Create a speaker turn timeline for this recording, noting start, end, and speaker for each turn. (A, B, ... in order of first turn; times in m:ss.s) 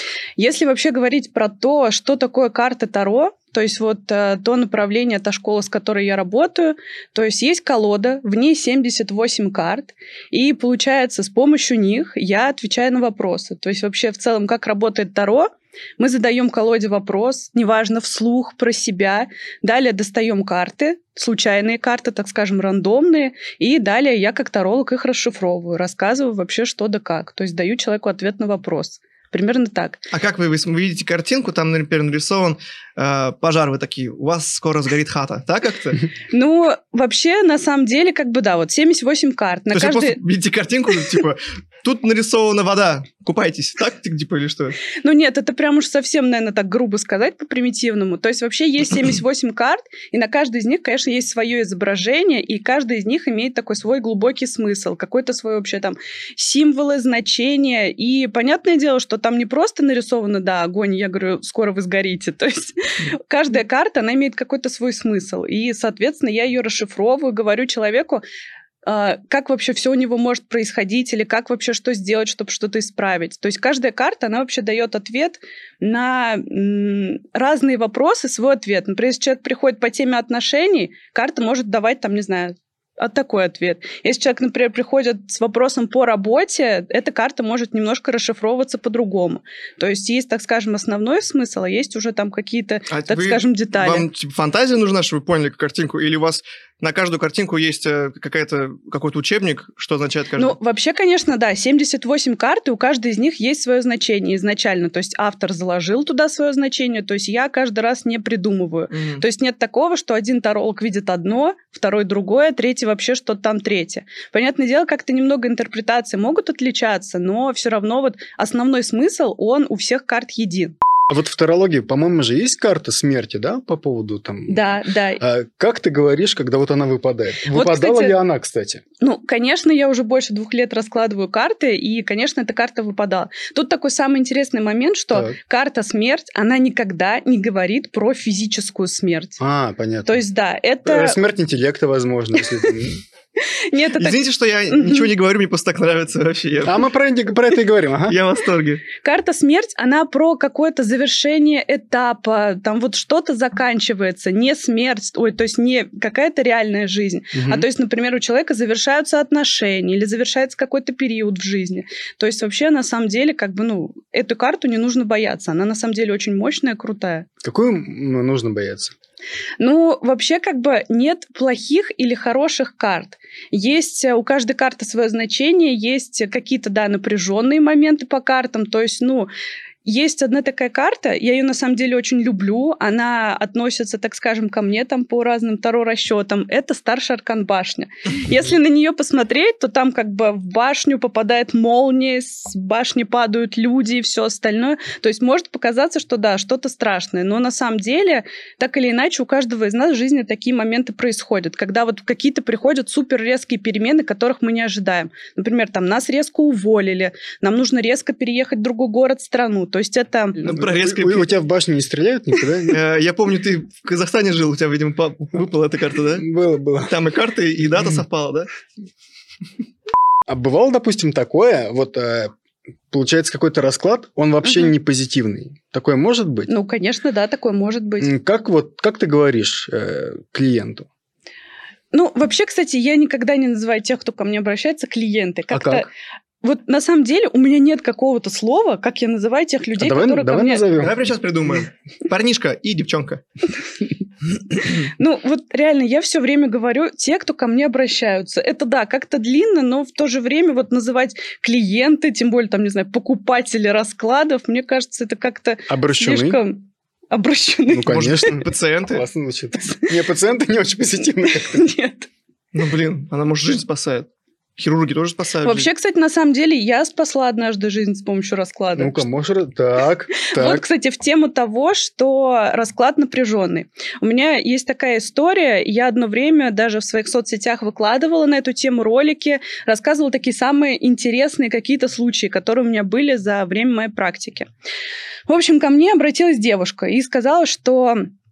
0:00.4-0:30.0 A
0:30.1-0:36.0 B
0:36.3-0:40.2 A
0:39.7-0:44.8 B
0:45.0-1:08.2 A
1:08.8-1:34.1 A
1:32.9-1:40.6 B
1:40.4-2:00.7 A
1:48.9-1:49.2 B
2:01.1-2:04.7 C
2:04.5-2:05.2 A
2:05.2-2:08.8 C
2:07.5-2:08.1 A
2:09.0-2:19.4 A
2:19.4-2:20.2 C
2:20.0-2:21.2 A
2:20.8-2:23.0 C
2:23.7-2:24.2 A
2:24.0-2:26.8 B
2:24.7-2:25.1 A
2:26.6-2:28.2 C
2:28.1-2:28.8 B
2:29.0-2:47.3 A
2:37.3-2:37.7 C
2:47.4-2:48.9 C
2:49.6-2:59.3 A
2:59.8-3:30.5 A
3:30.4-3:31.4 B
3:30.6-3:32.8 C
3:32.7-3:36.3 B
3:36.2-3:36.9 C
3:36.8-3:38.5 B
3:40.3-3:42.3 C
3:42.9-3:46.5 C
3:44.4-3:44.7 A
3:46.5-3:48.1 A
3:48.0-3:50.9 C
3:51.9-3:55.9 A
3:55.5-3:55.8 C
3:56.4-4:00.7 A
3:59.8-4:01.0 C
4:00.8-4:03.2 B
4:04.8-4:18.2 A
4:15.7-4:16.4 C
4:17.7-4:21.7 C
4:17.9-4:19.0 B
4:21.3-4:22.1 A
4:22.5-4:25.7 B
4:25.4-4:29.0 A
4:28.8-4:30.6 C
4:30.2-4:44.5 A
4:45.3-4:48.1 A